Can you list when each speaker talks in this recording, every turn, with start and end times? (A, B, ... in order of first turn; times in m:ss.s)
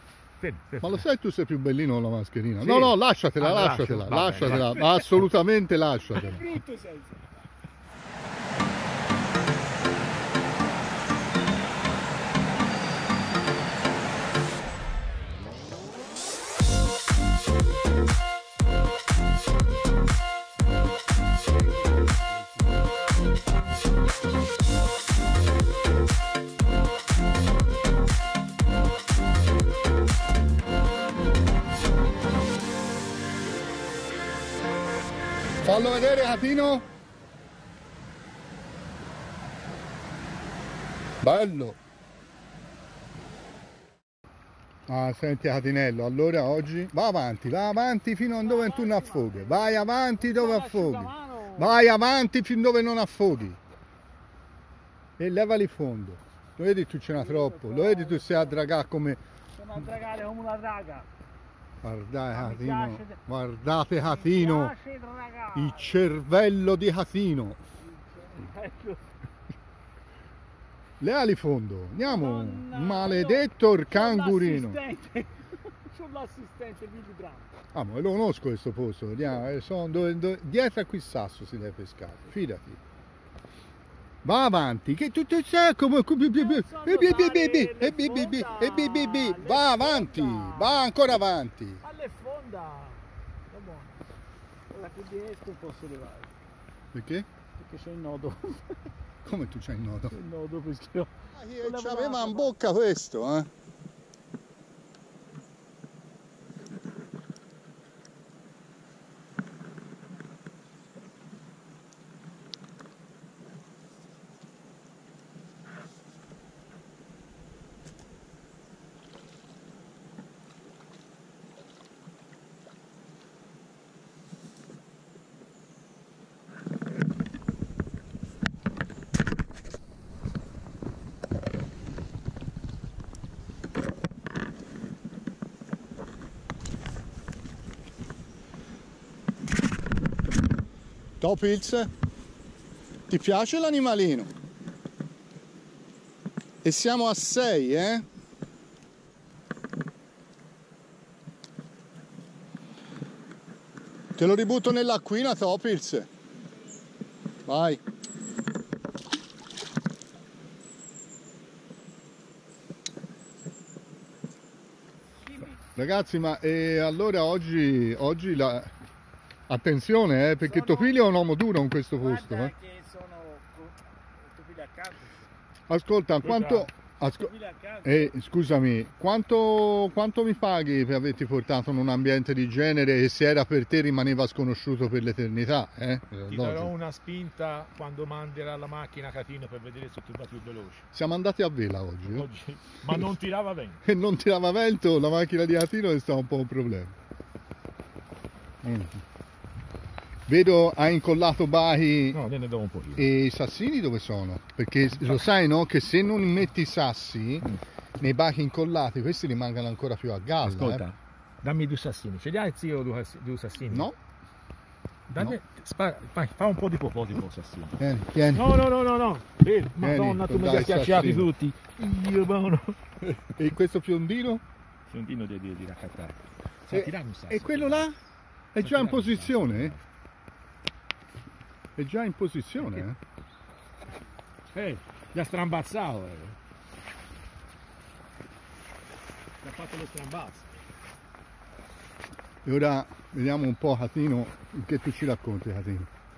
0:00.4-0:01.0 A
0:00.8-0:06.6 B
0:02.6-0:05.2 A
0:06.3-0:07.0 C
0:35.6-0:36.8 B
0:41.2-0:41.8 B
0:44.9-0:53.6 B
0:48.4-0:51.7 C
0:55.2-0:59.2 B
0:57.2-0:58.6 C
0:59.6-1:01.1 C
1:01.8-1:04.7 B
1:02.3-1:03.2 C
1:04.0-1:06.0 C
1:05.5-1:07.6 B
1:07.9-1:09.0 C
1:11.0-1:14.8 B
1:12.0-1:17.5 C
1:17.7-1:22.8 B
1:24.2-1:31.8 B
1:26.4-1:30.8 C
1:31.8-1:33.9 C
1:34.7-1:36.3 C
1:36.9-1:37.3 B
1:37.6-1:38.6 C
1:39.2-1:40.2 B
1:40.1-1:41.1 C
1:41.3-1:43.5 B
1:41.6-1:42.5 C
2:21.2-2:21.9 B
2:23.1-2:24.3 B
2:26.6-2:28.0 B
2:34.2-2:36.1 B
2:37.4-2:37.8 B
2:45.7-2:48.7 B
2:49.5-2:52.5 B
2:50.4-2:51.0 C
2:52.0-2:55.3 C
2:55.7-2:57.3 B
2:56.2-2:56.7 A
2:57.2-2:58.1 C
2:57.8-3:06.7 B
3:06.3-3:10.8 A
3:10.9-3:12.3 B
3:12.1-3:13.8 A
3:13.8-3:16.9 B
3:18.6-3:19.0 B
3:20.3-3:22.2 B
3:22.1-3:23.1 A
3:23.0-3:30.8 B
3:30.4-3:33.9 A
3:33.7-3:34.0 B
3:35.1-3:37.8 A
3:37.8-3:38.5 B
3:38.3-3:42.8 A
3:39.8-3:41.3 B
3:43.0-3:44.4 B
3:44.9-3:46.2 A
3:46.7-3:47.9 A
3:46.7-3:48.0 B
3:48.5-3:49.7 B
3:48.6-3:49.8 A
3:51.8-3:53.0 B
3:54.5-3:56.4 A
3:59.4-4:00.5 A
4:02.4-4:05.9 B